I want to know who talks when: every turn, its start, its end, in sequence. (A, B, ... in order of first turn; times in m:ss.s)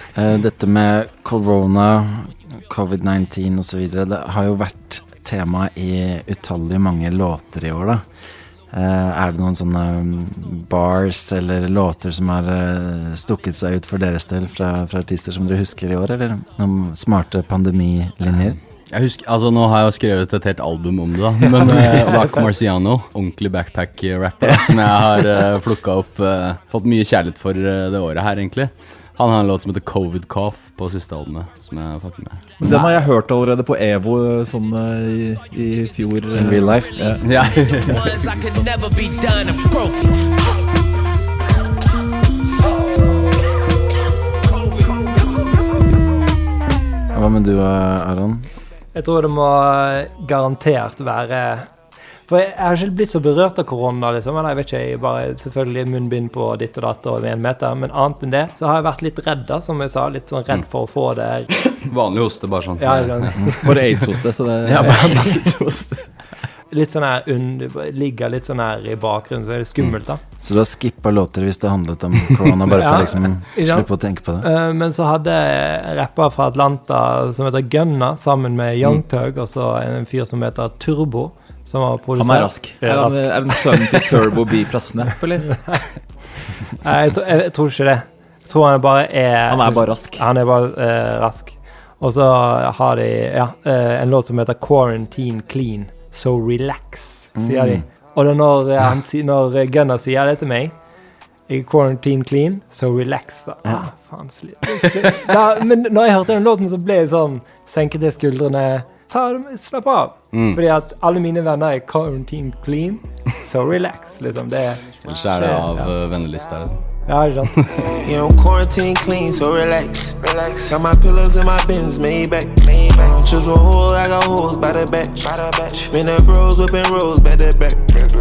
0:00.1-0:08.0 A
0:08.7-0:18.6 A
0:18.9-0:32.9 B
0:21.9-0:22.2 C
0:32.6-0:37.2 D
0:36.3-0:37.2 A
0:37.2-0:38.0 B
0:37.9-0:40.1 E
0:47.1-0:48.5 A
0:48.9-0:51.7 C
0:52.3-1:01.5 C
1:01.7-1:03.5 B
1:02.8-1:03.7 C
1:03.6-1:05.1 D
1:04.6-1:06.0 B
1:06.7-1:10.2 C
1:10.4-1:14.5 A
1:12.7-1:13.9 C
1:14.4-1:24.1 C
1:22.2-1:25.6 D
1:26.8-1:40.7 C
1:29.5-1:30.2 D
1:37.4-1:37.8 A
1:41.5-1:54.8 C
1:50.3-1:50.6 B
1:55.0-1:56.8 B
1:55.4-1:55.9 C
1:57.1-1:57.6 C
1:58.0-2:08.0 F